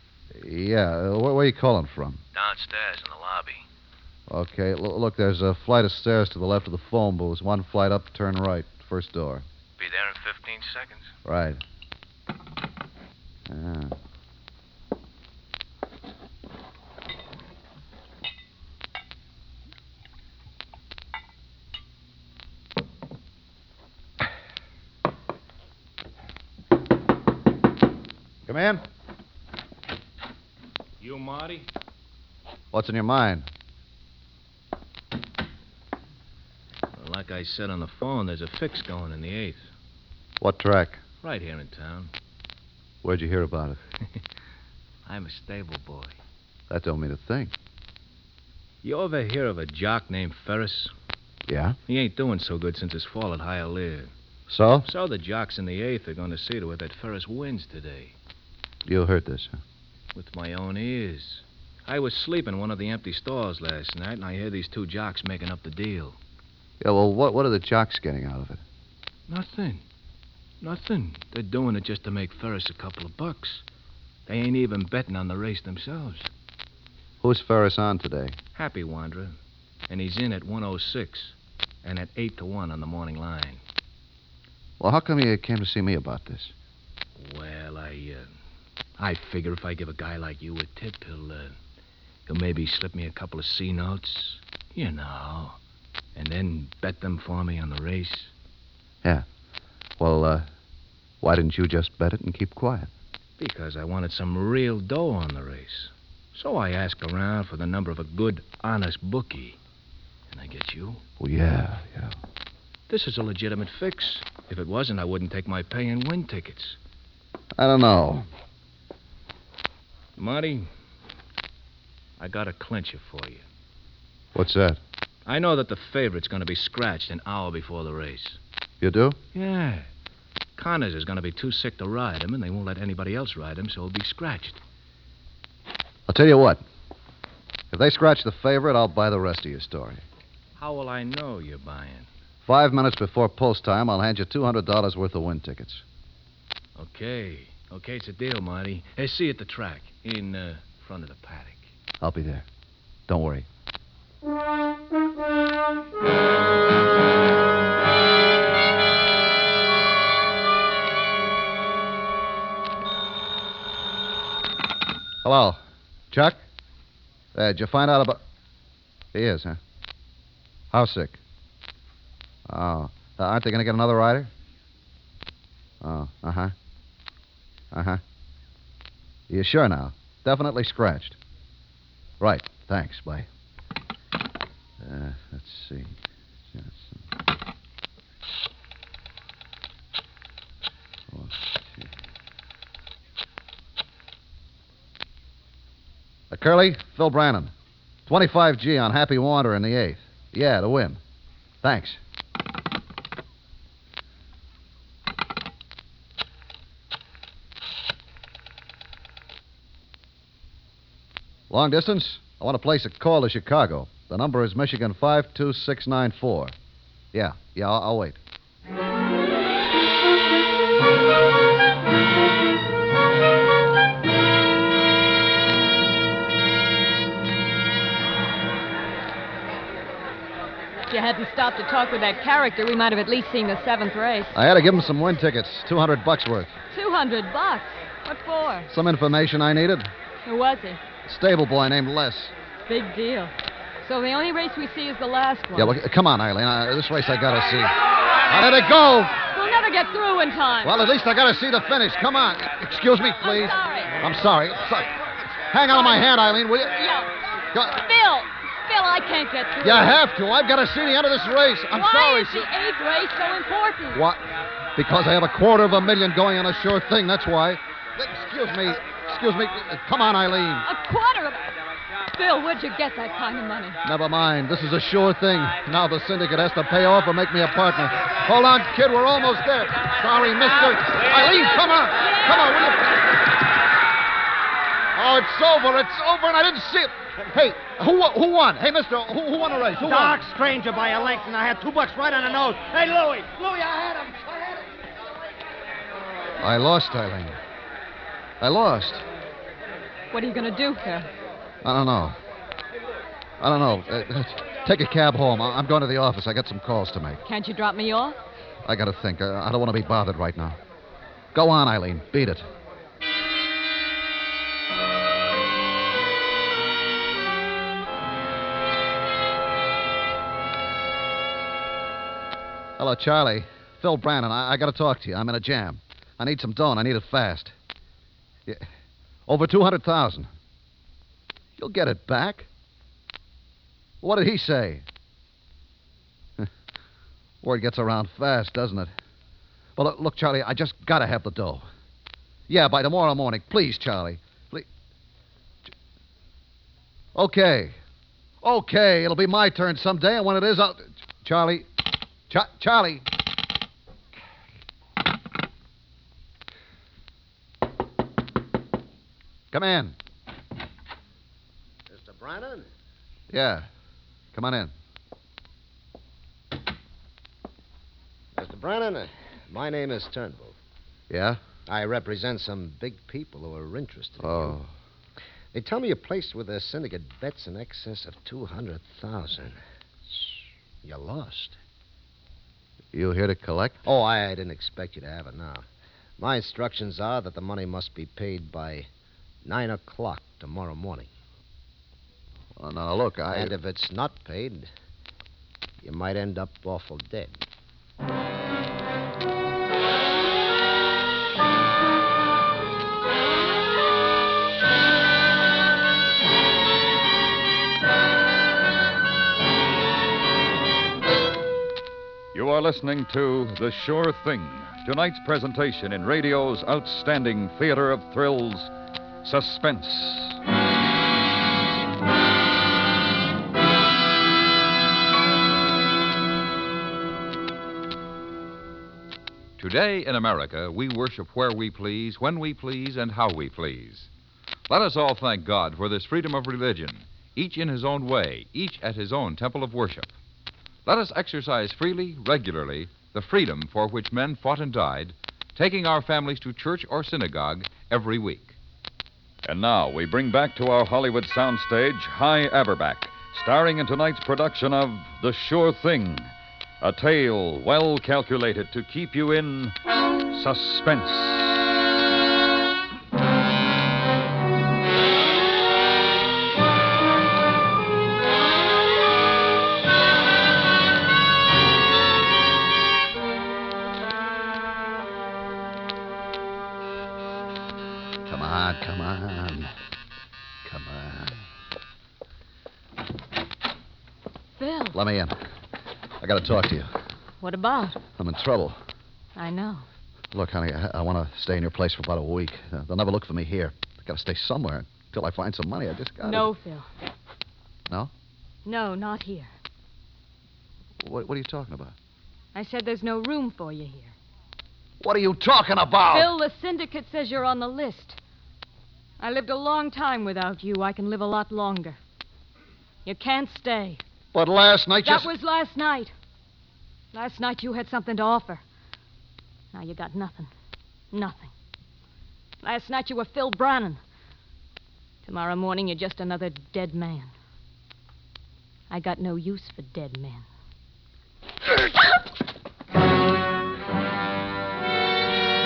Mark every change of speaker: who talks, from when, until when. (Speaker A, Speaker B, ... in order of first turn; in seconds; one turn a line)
Speaker A: 0.3-2.2
Speaker B: 2.3-3.6
Speaker A: 4.3-9.4
Speaker B: 9.8-11.1
Speaker A: 11.2-11.6
Speaker A: 13.5-13.9
Speaker A: 28.5-28.8
Speaker B: 31.0-31.7
Speaker A: 32.7-33.5
Speaker B: 36.9-39.6
Speaker A: 40.4-41.0
Speaker B: 41.2-42.1
Speaker A: 43.0-43.8
Speaker B: 45.0-46.1
Speaker A: 46.7-47.5
Speaker B: 48.8-50.9
Speaker A: 51.5-51.8
Speaker B: 51.9-54.1
Speaker A: 54.5-54.9
Speaker B: 54.8-58.1
Speaker A: 58.8-59.6
Speaker B: 60.1-66.2
Speaker A: 66.8-68.6
Speaker B: 69.3-69.8
Speaker B: 70.6-73.6
Speaker B: 74.2-76.3
Speaker A: 77.2-78.4
Speaker B: 78.5-79.4
Speaker B: 79.9-83.6
Speaker A: 84.8-86.5
Speaker B: 87.2-88.3
Speaker B: 89.0-91.6
Speaker B: 92.2-95.6
Speaker B: 96.1-98.3
Speaker A: 100.0-100.5
Speaker A: 101.2-102.9
Speaker B: 103.4-109.6
Speaker B: 110.3-111.0
Speaker A: 111.2-112.1
Speaker B: 112.9-116.8
Speaker A: 117.6-118.2
Speaker B: 120.2-120.7
Speaker B: 122.2-123.4
Speaker A: 124.3-124.8
Speaker B: 125.2-128.4
Speaker A: 128.8-129.2
Speaker B: 129.3-129.9
Speaker B: 130.6-134.6
Speaker A: 136.1-136.6
Speaker A: 137.7-140.0
Speaker B: 140.6-142.1
Speaker A: 142.4-145.8
Speaker B: 146.8-151.7
Speaker A: 152.0-152.4
Speaker A: 153.1-153.5
Speaker A: 165.2-166.4
Speaker A: 167.3-168.2
Speaker A: 169.1-169.6
Speaker A: 170.7-171.2
Speaker A: 172.5-174.3
Speaker A: 175.8-176.5
Speaker A: 177.7-178.0
Speaker A: 179.3-181.2
Speaker A: 182.2-183.3
Speaker A: 184.8-185.9
Speaker A: 186.5-187.0
Speaker A: 191.1-191.9
Speaker A: 196.3-197.5
Speaker A: 198.1-201.0
Speaker A: 201.6-202.0
Speaker A: 211.5-216.5
Speaker A: 217.1-218.2
Speaker C: 230.9-234.3
Speaker A: 234.3-236.5
Speaker C: 236.7-238.7
Speaker A: 238.7-239.9
Speaker C: 240.2-240.8
Speaker A: 241.0-242.3
Speaker C: 242.7-245.8
Speaker A: 245.5-249.1
Speaker C: 249.3-250.7
Speaker A: 250.6-255.0
Speaker C: 253.2-254.0
Speaker A: 255.5-256.9
Speaker C: 255.7-256.1
Speaker C: 256.7-259.9
Speaker A: 257.5-257.8
Speaker A: 259.6-262.5
Speaker C: 261.7-264.0
Speaker A: 263.9-264.2
Speaker A: 264.8-270.6
Speaker C: 270.6-271.4
Speaker C: 272.1-273.8
Speaker A: 273.8-283.1
Speaker C: 281.9-282.5
Speaker A: 284.9-290.2
Speaker D: 289.8-294.6
Speaker A: 296.4-297.4
Speaker A: 298.4-299.0
Speaker C: 300.1-301.1
Speaker A: 301.6-302.2
Speaker A: 303.4-307.2
Speaker C: 307.2-308.2
Speaker A: 308.6-310.6
Speaker A: 311.3-312.5
Speaker A: 322.8-327.5
Speaker A: 329.3-330.3
Speaker A: 331.6-332.5
Speaker A: 334.0-334.8
Speaker A: 337.4-338.9
Speaker A: 339.8-341.6
Speaker A: 342.5-344.7
Speaker A: 347.1-347.8
Speaker A: 348.4-351.7
Speaker A: 352.3-353.0
Speaker A: 359.5-359.9
Speaker E: 361.9-362.7
Speaker A: 363.3-363.7
Speaker A: 364.3-364.7
Speaker E: 368.3-370.6
Speaker A: 371.1-371.4
Speaker E: 371.6-374.6
Speaker A: 374.2-374.7
Speaker E: 375.5-379.6
Speaker E: 380.8-381.6
Speaker A: 382.9-383.8
Speaker E: 383.8-385.6
Speaker E: 386.2-388.9
Speaker E: 389.4-391.1
Speaker A: 392.6-393.6
Speaker E: 393.3-394.7
Speaker E: 395.8-397.4
Speaker F: 412.3-418.7
Speaker F: 419.2-420.4
Speaker G: 429.6-434.1
Speaker G: 434.7-440.1
Speaker G: 440.8-448.6
Speaker F: 449.4-459.8
Speaker F: 460.3-461.7
Speaker A: 478.2-479.7
Speaker A: 480.6-481.4
Speaker C: 484.6-485.0
Speaker A: 484.9-485.4
Speaker A: 486.2-486.9
Speaker C: 487.4-488.0
Speaker A: 488.2-488.8
Speaker C: 489.4-489.9
Speaker A: 490.3-496.5
Speaker C: 496.2-496.9
Speaker C: 498.6-499.5
Speaker A: 501.0-501.9
Speaker C: 502.5-504.1
Speaker A: 505.0-506.3
Speaker C: 506.1-508.2
Speaker C: 509.2-512.0
Speaker C: 513.0-514.0
Speaker A: 514.3-515.3
Speaker C: 515.0-516.1
Speaker C: 517.1-518.6
Speaker C: 519.7-520.5
Speaker C: 521.1-521.5
Speaker C: 522.6-524.0
Speaker C: 525.2-527.3
Speaker C: 528.9-530.5